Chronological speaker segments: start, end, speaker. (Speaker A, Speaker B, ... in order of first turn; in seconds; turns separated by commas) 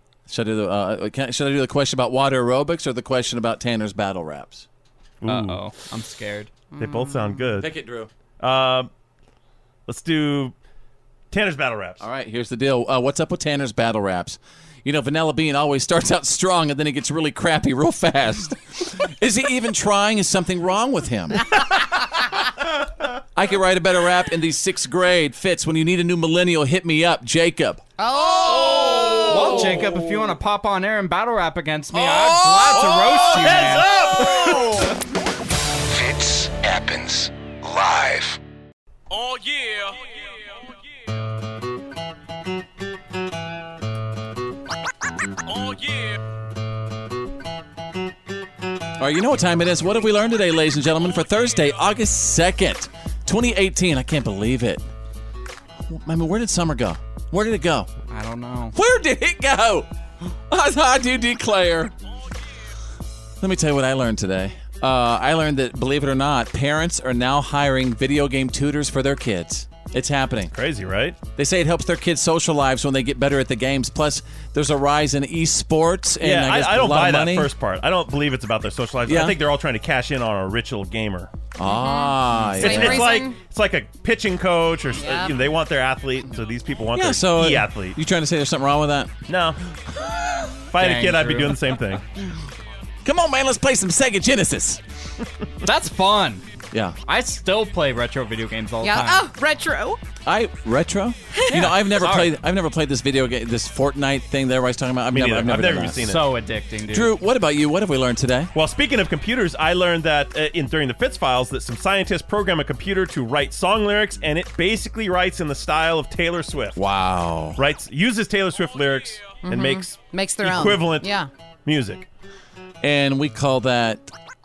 Speaker A: 0.3-4.7, Speaker B: 5.2-5.6, Speaker C: 5.2-6.5, Speaker D: 6.8-7.5, Speaker B: 6.8-7.7, Speaker A: 7.6-8.1, Speaker B: 8.4-8.9, Speaker B: 9.9-10.5, Speaker B: 11.3-12.0, Speaker A: 12.0-21.5, Speaker A: 23.4-27.8, Speaker D: 28.0-29.4, Speaker A: 28.7-29.9, Speaker C: 29.3-34.4, Speaker A: 32.0-33.5, Speaker B: 33.3-34.7, Speaker E: 35.9-38.4, Speaker A: 49.0-54.9, Speaker A: 55.9-57.9, Speaker C: 58.1-58.7, Speaker A: 58.7-59.9, Speaker A: 60.5-61.9, Speaker A: 63.4-70.5, Speaker B: 70.5-71.2, Speaker A: 71.3-77.5, Speaker B: 76.2-81.3, Speaker A: 79.1-79.4, Speaker A: 81.5-83.2, Speaker D: 81.6-83.4, Speaker B: 82.6-88.0, Speaker D: 85.0-85.4, Speaker A: 86.9-89.1, Speaker B: 89.3-89.6, Speaker B: 90.7-92.0, Speaker C: 90.8-91.7, Speaker A: 93.0-94.8, Speaker C: 95.6-96.5, Speaker A: 96.7-97.0, Speaker C: 97.0-99.3, Speaker D: 98.8-100.0, Speaker A: 100.2-106.2, Speaker C: 101.5-102.3, Speaker B: 105.1-106.2, Speaker C: 106.0-107.1, Speaker A: 106.9-108.5, Speaker B: 108.5-116.8, Speaker A: 116.8-117.6, Speaker B: 117.6-121.1, Speaker D: 119.4-121.3, Speaker B: 121.7-122.0, Speaker A: 122.8-124.1